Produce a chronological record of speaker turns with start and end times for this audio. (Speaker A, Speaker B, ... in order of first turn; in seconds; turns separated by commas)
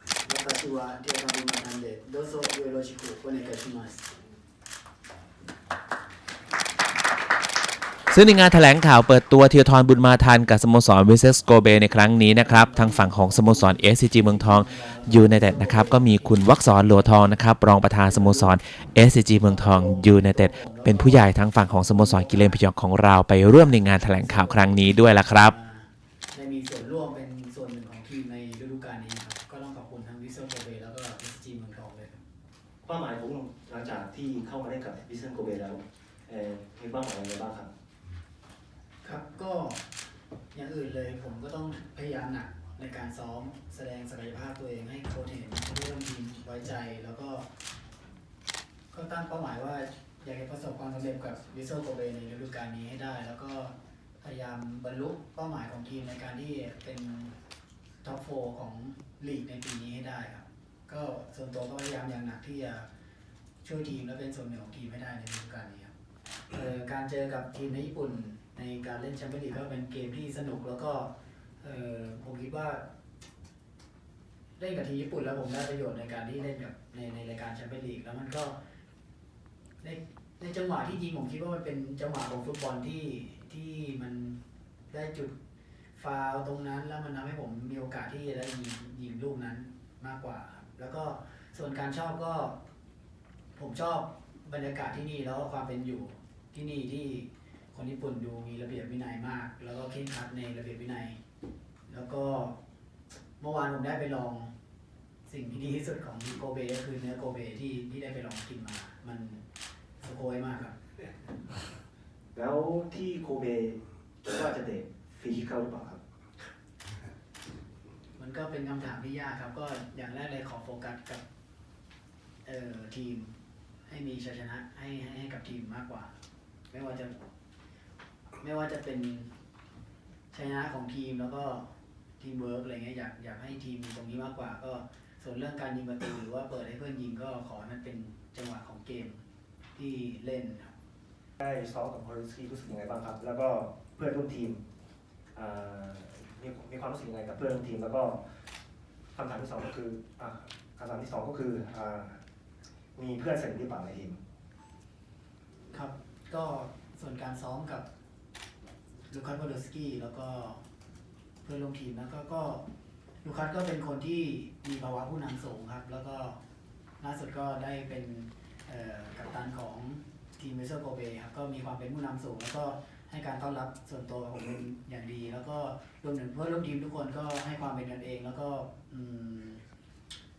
Speaker A: 0.2-4.1, Speaker B: 8.1-25.5, Speaker A: 12.3-17.2, Speaker A: 18.0-18.5, Speaker A: 19.4-22.6, Speaker A: 23.7-32.2, Speaker C: 32.8-37.7, Speaker A: 39.0-39.9, Speaker A: 40.5-47.5, Speaker A: 48.9-57.3, Speaker A: 58.0-62.9, Speaker A: 63.6-65.9, Speaker A: 66.5-72.9, Speaker A: 74.6-78.6, Speaker A: 79.8-85.3, Speaker A: 85.9-92.6, Speaker A: 93.5-101.2, Speaker A: 101.9-102.6, Speaker A: 103.4-104.5, Speaker A: 105.2-109.4, Speaker A: 110.0-110.8, Speaker C: 112.3-116.0, Speaker A: 118.1-121.2, Speaker A: 122.4-123.3, Speaker A: 123.9-126.1, Speaker A: 126.7-127.2, Speaker A: 128.4-129.3, Speaker A: 130.3-139.2, Speaker A: 139.8-140.7, Speaker C: 141.4-144.6, Speaker C: 145.3-148.3, Speaker C: 149.1-152.2, Speaker C: 152.9-154.2, Speaker A: 155.7-157.9, Speaker A: 159.1-160.6, Speaker A: 161.4-162.7, Speaker A: 163.2-166.4, Speaker A: 167.0-179.6